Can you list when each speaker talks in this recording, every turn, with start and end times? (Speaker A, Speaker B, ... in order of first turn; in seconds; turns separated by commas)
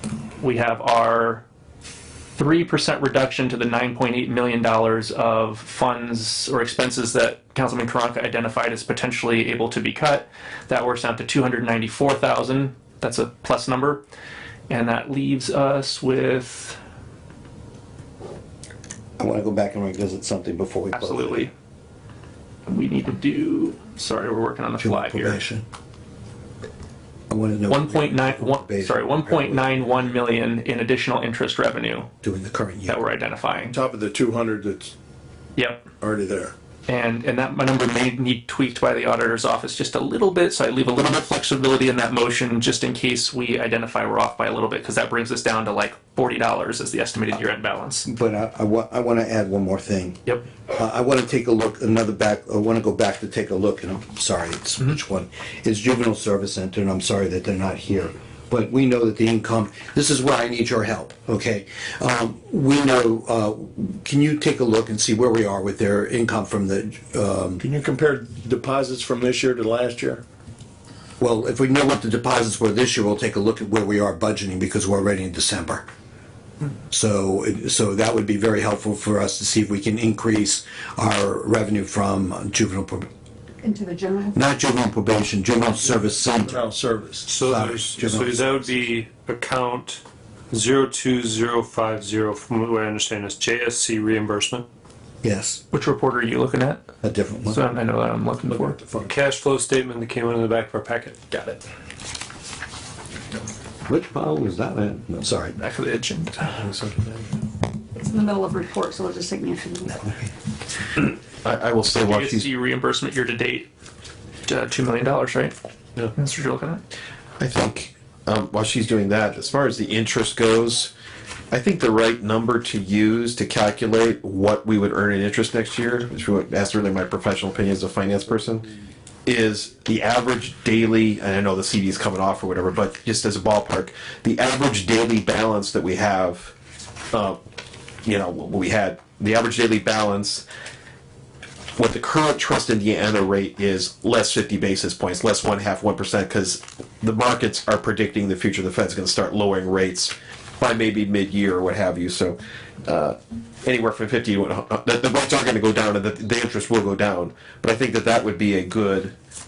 Speaker A: 0.4-1.4, Speaker A: 2.4-14.0, Speaker A: 14.7-16.8, Speaker B: 19.2-21.5, Speaker A: 20.9-21.5, Speaker A: 22.7-25.4, Speaker B: 24.8-25.6, Speaker B: 27.3-29.8, Speaker A: 27.7-32.1, Speaker B: 32.2-33.0, Speaker A: 32.9-33.7, Speaker C: 33.7-34.9, Speaker A: 35.6-35.8, Speaker C: 36.0-36.5, Speaker A: 36.9-48.0, Speaker B: 48.0-67.6, Speaker C: 67.6-70.2, Speaker B: 71.2-75.8, Speaker B: 76.9-83.1, Speaker D: 83.6-84.3, Speaker B: 84.3-86.7, Speaker C: 86.5-87.2, Speaker E: 87.2-94.6, Speaker B: 87.3-88.4, Speaker B: 95.2-95.6, Speaker A: 95.7-96.8, Speaker B: 97.0-97.6, Speaker A: 97.5-98.8, Speaker C: 98.5-99.2, Speaker E: 99.0-101.3, Speaker A: 101.3-101.6, Speaker B: 103.8-105.5, Speaker A: 105.6-106.6, Speaker F: 106.4-107.2, Speaker D: 108.0-110.2, Speaker F: 111.4-112.5, Speaker A: 112.0-113.7, Speaker A: 114.5-116.8, Speaker F: 117.4-120.9, Speaker F: 121.5-128.7, Speaker F: 129.2-136.5, Speaker F: 137.1-137.4, Speaker F: 138.0-140.4, Speaker F: 141.8-159.1